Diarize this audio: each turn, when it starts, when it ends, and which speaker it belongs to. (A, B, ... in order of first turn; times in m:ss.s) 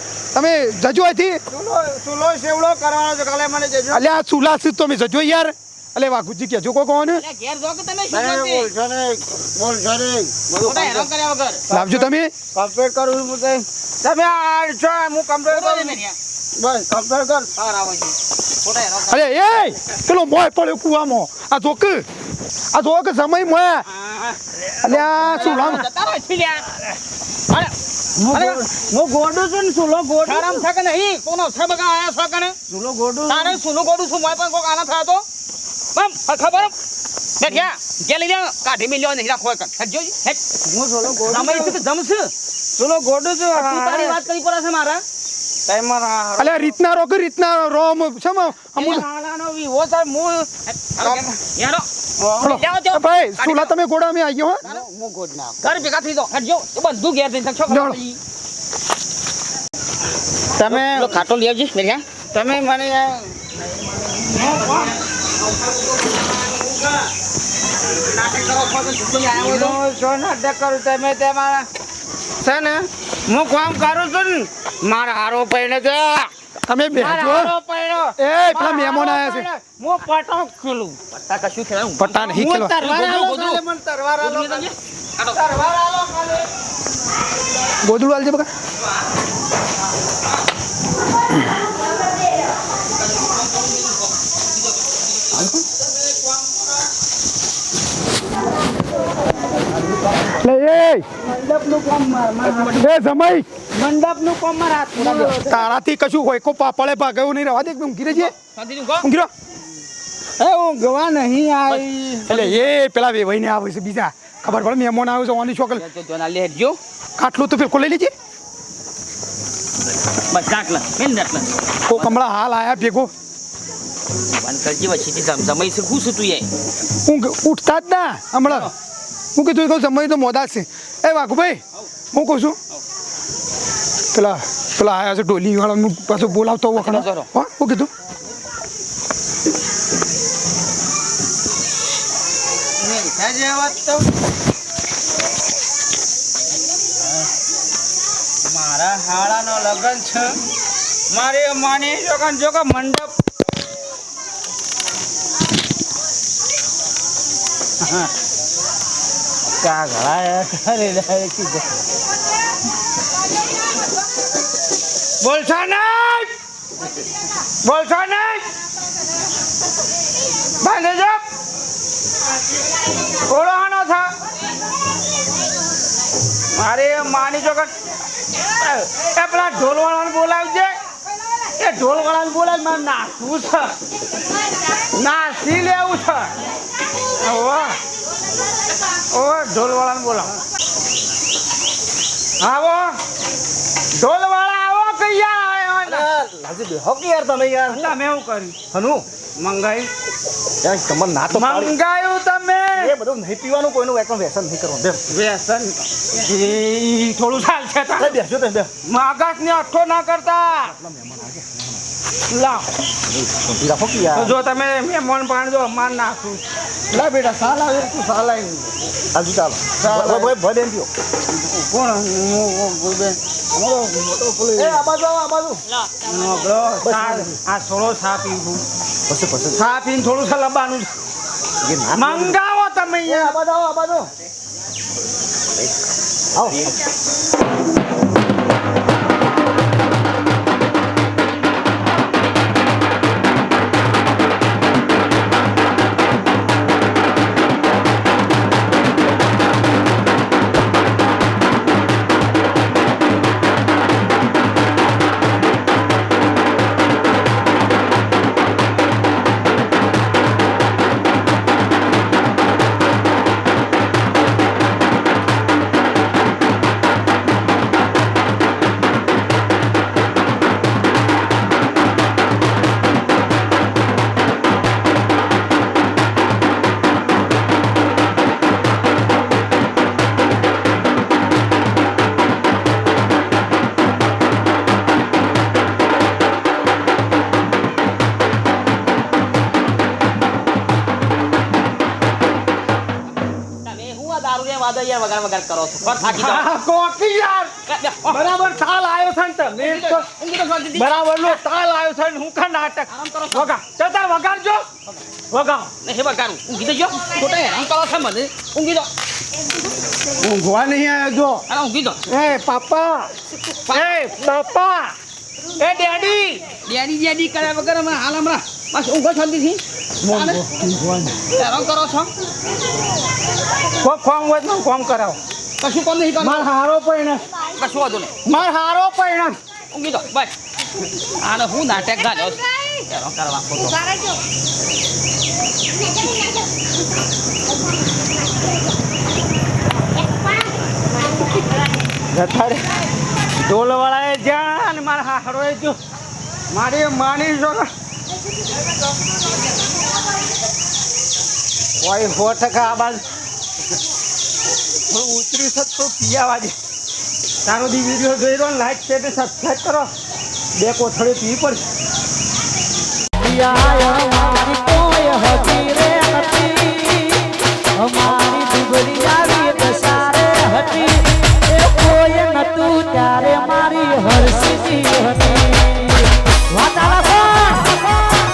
0:00.3-0:01.4 A
0:01.5-0:04.0 B
0:03.9-0:07.2 A
0:07.2-0:08.7 C
0:08.1-0:11.1 B
0:10.6-0:11.6 C
0:11.7-0:12.3 A
0:11.7-0:16.0 B
0:15.5-0:16.1 C
0:16.6-0:17.9 B
0:19.1-0:22.0 A
0:22.7-0:23.8 A
0:24.8-0:25.8 A
0:25.1-0:26.8 C
0:28.2-0:30.6 B
0:28.3-0:28.6 C
0:30.2-0:32.6 C
0:32.7-0:33.6 B
0:33.3-0:35.2 C
0:35.9-0:36.7 C
0:37.4-0:40.4 C
0:40.6-0:41.8 B
0:41.3-0:42.3 C
0:42.8-0:44.2 B
0:43.5-0:45.0 C
0:45.6-0:46.7 B
0:46.4-0:49.0 A
0:48.8-0:51.3 B
0:51.0-0:51.8 C
0:52.2-0:52.5 B
0:52.4-0:54.6 A
0:52.4-0:53.7 C
0:54.6-0:55.7 B
0:55.6-0:58.2 C
0:57.7-0:58.0 A
1:00.6-1:01.2 B
1:00.6-1:02.0 C
1:02.3-1:03.3 B
1:04.3-1:04.9 B
1:08.3-1:11.7 B
1:08.8-1:09.7 C
1:12.4-1:16.3 B
1:16.7-1:17.5 A
1:16.9-1:21.0 B
1:18.2-1:19.5 A
1:21.1-1:23.6 C
1:22.0-1:22.7 A
1:22.3-1:24.7 B
1:24.2-1:25.4 C
1:25.3-1:26.4 B
1:27.8-1:28.5 A
1:40.3-1:41.0 A
1:41.2-1:42.8 B
1:42.7-1:43.4 A
1:43.7-1:45.6 B
1:45.4-1:48.3 A
1:48.2-1:49.1 C
1:49.0-1:49.3 A
1:50.4-1:52.4 B
1:52.3-1:55.8 A
1:55.8-1:56.8 C
1:57.2-1:58.1 A
2:00.3-2:02.1 C
2:01.8-2:03.1 A
2:04.3-2:06.5 C
2:07.0-2:08.7 A
2:09.4-2:11.6 A
2:12.1-2:12.6 A
2:14.1-2:17.9 A
2:16.7-2:17.3 C
2:22.8-2:24.1 B
2:28.4-2:30.3 B
2:31.1-2:33.1 B
2:39.6-2:41.6 B
2:45.2-2:46.3 B
2:47.6-2:48.5 B
2:50.6-2:51.2 B
2:53.3-2:54.1 B
2:56.5-2:57.7 B
2:58.6-3:00.7 B
3:01.6-3:03.7 B
3:04.9-3:06.3 B
3:07.2-3:07.8 B
3:09.1-3:10.3 B
3:12.4-3:12.9 B
3:14.0-3:16.1 B
3:15.8-3:17.9 D
3:17.7-3:18.6 B
3:18.7-3:19.0 D
3:19.4-3:19.9 B
3:20.6-3:21.7 D
3:21.3-3:22.9 B
3:22.8-3:25.0 D
3:25.1-3:28.2 B
3:28.0-3:28.7 D
3:28.8-3:30.7 B
3:30.8-3:31.4 D
3:32.3-3:32.6 B
3:33.2-3:34.4 D
3:34.1-3:38.7 B
3:39.1-3:40.9 D
3:39.8-3:40.3 B
3:41.5-3:43.8 B
3:44.1-3:45.6 D
3:46.0-3:48.6 B
3:46.8-3:47.4 D
3:49.1-3:49.6 D
3:49.6-3:50.9 B
3:51.6-3:52.4 D
3:51.9-3:53.4 B
3:53.0-3:54.1 D
3:56.4-3:56.6 D
4:53.6-4:56.5 C
4:56.0-4:57.5 B
4:57.7-4:58.2 C
4:58.1-5:00.0 B
4:59.6-5:01.4 C
5:00.8-5:04.7 B
5:02.9-5:03.5 C
5:05.3-5:05.7 B
5:05.8-5:08.9 C
5:10.2-5:11.4 B
5:11.5-5:12.0 C
5:12.1-5:13.1 B
5:13.7-5:14.9 B
5:15.6-5:16.4 B
5:16.5-5:20.4 C
5:20.0-5:21.1 B
5:21.3-5:22.1 C
5:23.8-5:25.2 B
5:25.6-5:26.4 C
5:26.2-5:27.2 B
5:27.5-5:28.2 C
5:28.2-5:29.4 B
5:29.7-5:30.4 C
5:31.0-5:34.0 C
5:42.1-5:42.6 B
5:43.4-5:45.8 B
5:46.5-5:47.7 B
5:51.8-5:53.0 B
5:54.9-5:56.5 B
5:57.4-5:59.9 B
6:00.6-6:01.6 B
6:03.2-6:17.7 E